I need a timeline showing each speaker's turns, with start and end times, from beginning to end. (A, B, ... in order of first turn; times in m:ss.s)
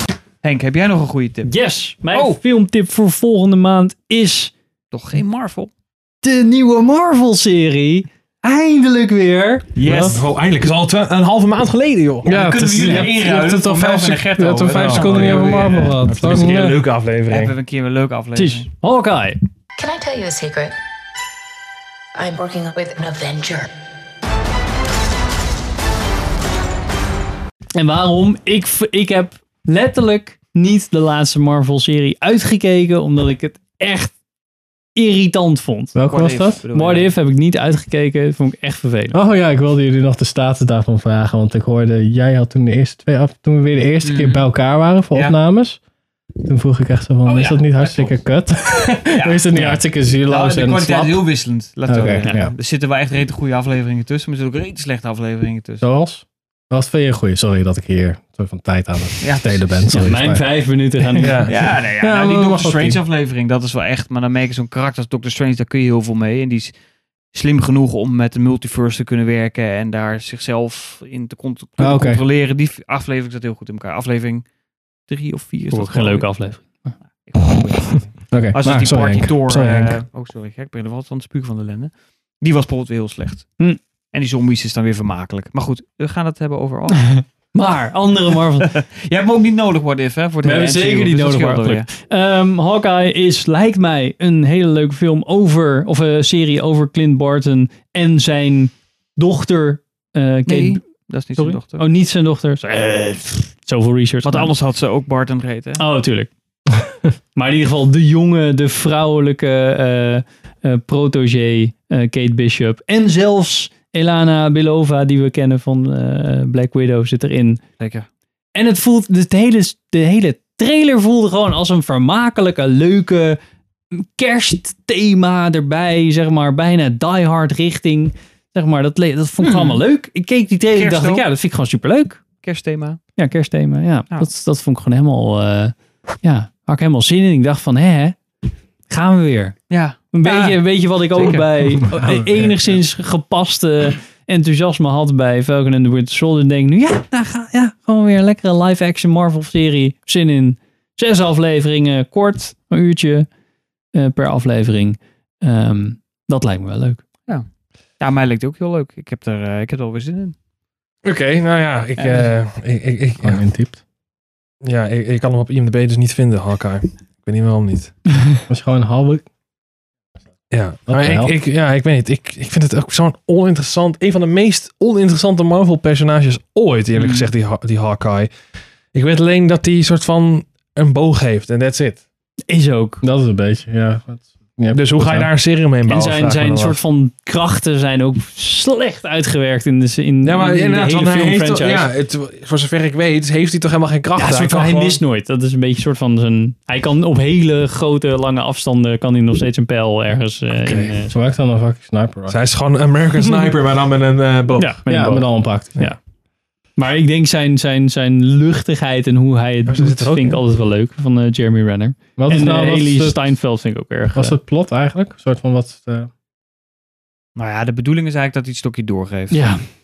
0:00.4-0:01.5 A
0:01.5-0:04.5 B
0:02.1-0:02.4 A
0:04.9-0:05.7 A
0:06.2-0:10.1 B
0:09.8-0:10.2 A
0:09.9-0:13.6 C
0:12.2-0:16.8 D
0:12.3-0:16.4 A
0:14.7-0:17.6 C
0:15.2-0:15.9 B
0:17.3-0:18.7 A
0:18.4-0:19.4 B
0:19.8-0:20.8 E
0:22.2-0:23.7 E
0:27.8-0:34.1 B
0:35.0-0:36.0 B
0:36.0-0:36.6 D
0:36.1-0:37.1 A
0:36.7-0:39.2 B
0:39.1-0:45.8 D
0:44.0-0:44.4 A
0:46.4-0:51.3 D
0:47.3-0:48.1 A
0:48.9-0:55.9 A
0:51.9-0:52.5 D
0:55.8-1:00.5 D
0:59.2-1:00.1 A
0:59.9-1:01.4 B
1:01.2-1:01.6 C
1:01.5-1:06.7 A
1:02.0-1:03.0 D
1:07.3-1:14.5 A
1:11.8-1:12.2 D
1:15.1-1:16.6 A
1:15.7-1:16.9 B
1:17.1-1:23.6 A
1:18.3-1:20.0 D
1:24.1-1:27.3 A
1:27.1-1:28.7 B
1:28.6-1:31.9 A
1:30.4-1:40.8 B
1:40.5-1:41.8 A
1:41.4-1:44.5 B
1:44.2-1:45.8 A
1:45.8-1:46.3 B
1:47.4-1:57.6 B
1:57.8-1:58.1 A
1:58.6-2:03.4 B
2:03.9-2:12.2 B
2:09.4-2:09.8 A
2:10.8-2:11.2 A
2:12.4-2:13.0 A
2:13.2-2:18.2 B
2:18.9-2:33.3 B
2:19.7-2:21.8 A
2:22.0-2:22.5 D
2:34.0-2:37.0 B
2:38.0-2:40.4 A
2:41.0-2:43.4 C
2:42.0-2:42.3 A
2:43.2-2:43.8 D
2:44.6-2:47.9 C
2:48.5-2:49.2 D
2:50.5-2:58.3 C
2:50.9-2:51.3 D
2:57.0-2:57.3 A
2:58.9-3:02.0 C
3:02.5-3:03.0 B
3:03.0-3:05.3 D
3:04.7-3:06.8 C
3:05.9-3:11.9 B
3:10.2-3:15.0 C
3:14.2-3:21.1 B
3:20.5-3:21.0 C
3:21.1-3:22.4 D
3:22.3-3:25.0 C
3:24.6-3:26.0 B
3:24.9-3:25.8 D
3:26.8-3:34.4 B
3:29.7-3:30.4 C
3:32.2-3:33.4 D
3:34.1-3:36.1 D
3:37.4-3:39.4 A
3:39.3-3:39.6 B